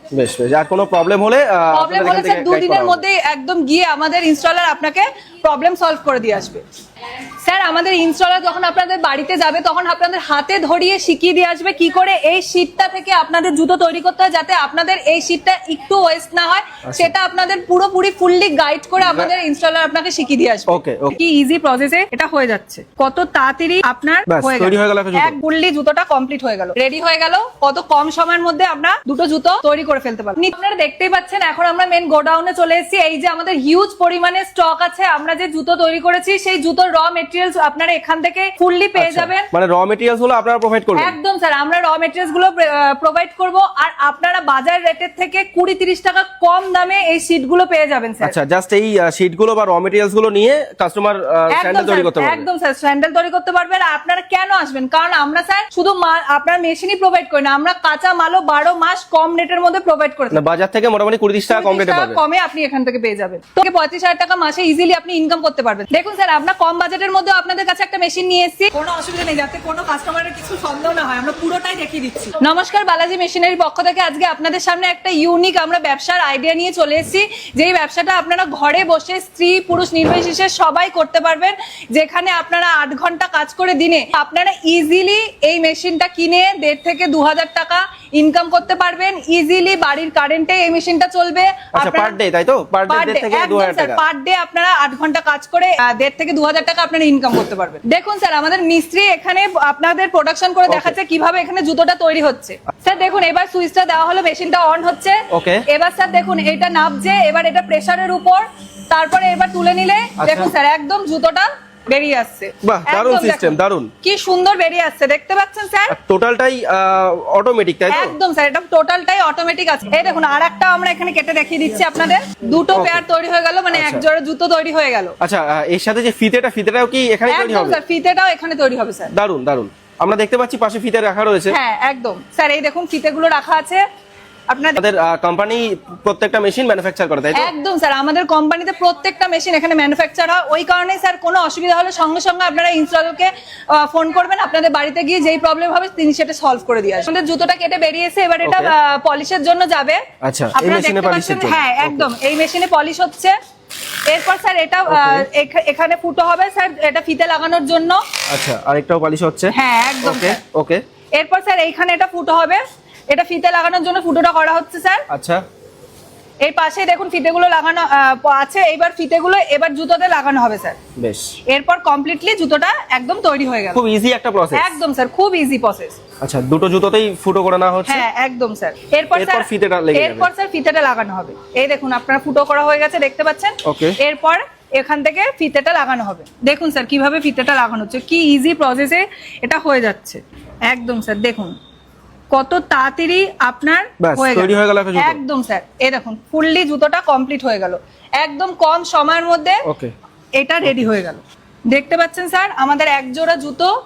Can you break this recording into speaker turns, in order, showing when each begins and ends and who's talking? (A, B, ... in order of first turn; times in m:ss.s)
0:00.1-0:03.0 A
0:01.7-0:06.6 B
0:07.4-0:39.5 B
0:19.0-0:19.3 A
0:20.7-0:21.2 A
0:24.3-0:25.4 A
0:39.0-0:41.2 A
0:41.0-0:48.3 B
0:48.2-0:52.5 A
0:51.5-1:00.4 B
1:00.3-1:02.2 A
1:01.5-1:32.2 B
1:31.8-1:34.0 A
1:32.9-1:56.0 B
1:40.7-1:41.0 A
1:45.3-1:45.6 A
1:50.2-1:50.5 A
1:52.6-1:53.9 A
1:55.9-1:58.2 A
1:57.9-2:05.2 B
2:02.7-2:03.0 A
2:03.7-2:04.0 A
2:05.2-2:07.8 A
2:07.3-2:09.1 B
2:09.1-2:11.6 A
2:11.5-2:13.8 B
2:14.5-2:14.8 B
2:14.8-2:17.5 A
2:17.3-2:33.4 B
2:28.4-2:28.7 A
2:30.2-2:32.1 A
2:34.1-2:38.0 B
2:34.9-2:35.3 A
2:38.3-2:40.8 A
2:39.5-2:40.4 B
2:41.1-2:45.1 B
2:45.1-2:45.4 A
2:46.4-2:50.8 B
2:51.0-2:51.4 A
2:51.5-2:53.8 B
2:53.7-2:54.7 A
2:54.5-2:56.0 B
2:56.2-2:58.1 A
2:57.9-3:11.6 B
2:59.2-3:00.3 A
3:03.6-3:04.0 A
3:12.3-3:19.6 B
3:14.0-3:15.2 A
3:19.6-3:19.9 A
3:20.4-3:23.7 B